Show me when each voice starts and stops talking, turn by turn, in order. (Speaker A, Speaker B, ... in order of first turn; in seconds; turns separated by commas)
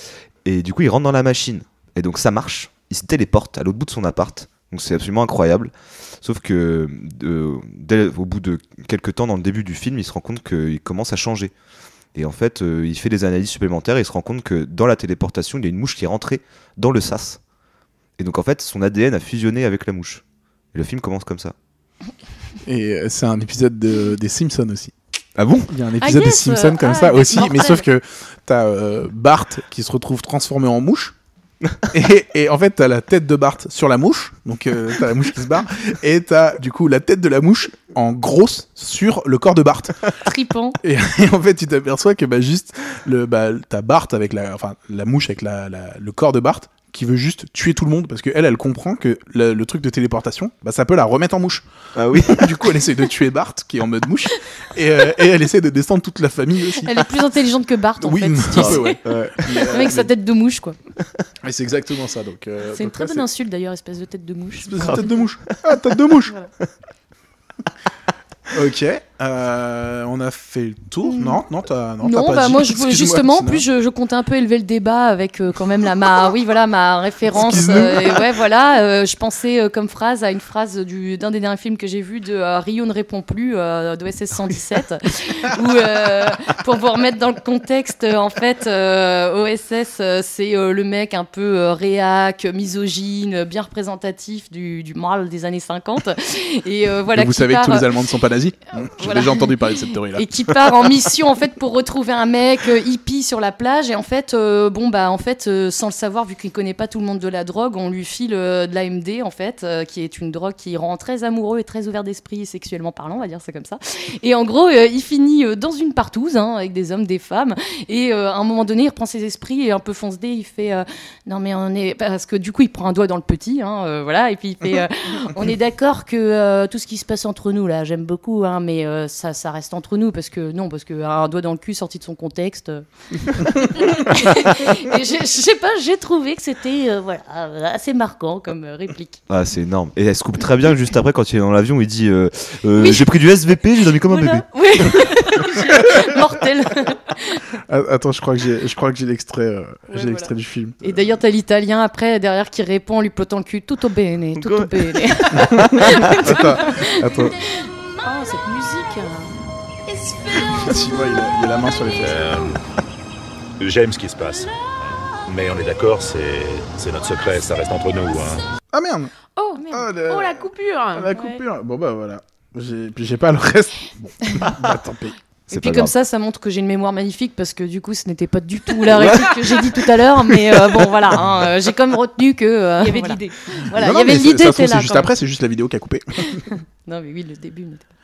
Speaker A: 0.5-11.5, Speaker A: 12.2-17.4, Speaker A: 18.2-21.5, Speaker B: 22.6-24.9, Speaker A: 25.4-25.7, Speaker B: 25.7-31.1, Speaker C: 26.0-27.8, Speaker B: 31.9-40.1, Speaker C: 40.2-40.8, Speaker B: 40.8-56.9, Speaker A: 52.0-52.8, Speaker C: 56.8-59.0, Speaker B: 58.0-60.1, Speaker A: 58.6-59.8, Speaker C: 59.7-60.8, Speaker B: 61.4-63.2, Speaker C: 62.8-65.1, Speaker B: 64.6-66.3, Speaker A: 64.8-65.5, Speaker B: 68.5-73.7, Speaker C: 71.0-71.4, Speaker C: 72.0-97.9, Speaker B: 77.3-78.3, Speaker B: 97.1-100.3, Speaker C: 99.0-99.5, Speaker C: 100.1-139.2, Speaker A: 139.3-145.0, Speaker C: 142.8-143.1, Speaker C: 144.1-147.5, Speaker B: 147.7-150.9, Speaker C: 149.9-157.0, Speaker A: 154.4-154.7, Speaker A: 155.3-156.3, Speaker B: 155.7-157.4, Speaker D: 158.0-159.4, Speaker B: 160.6-162.3, Speaker E: 162.0-162.6, Speaker E: 163.6-164.6, Speaker E: 165.1-168.4, Speaker B: 168.7-169.1, Speaker D: 169.4-171.1, Speaker C: 169.6-169.9, Speaker B: 169.7-175.2, Speaker C: 171.1-171.4, Speaker C: 175.5-185.1, Speaker A: 175.5-175.9, Speaker A: 179.0-179.3, Speaker D: 182.8-183.7, Speaker B: 183.7-186.4, Speaker C: 186.5-187.9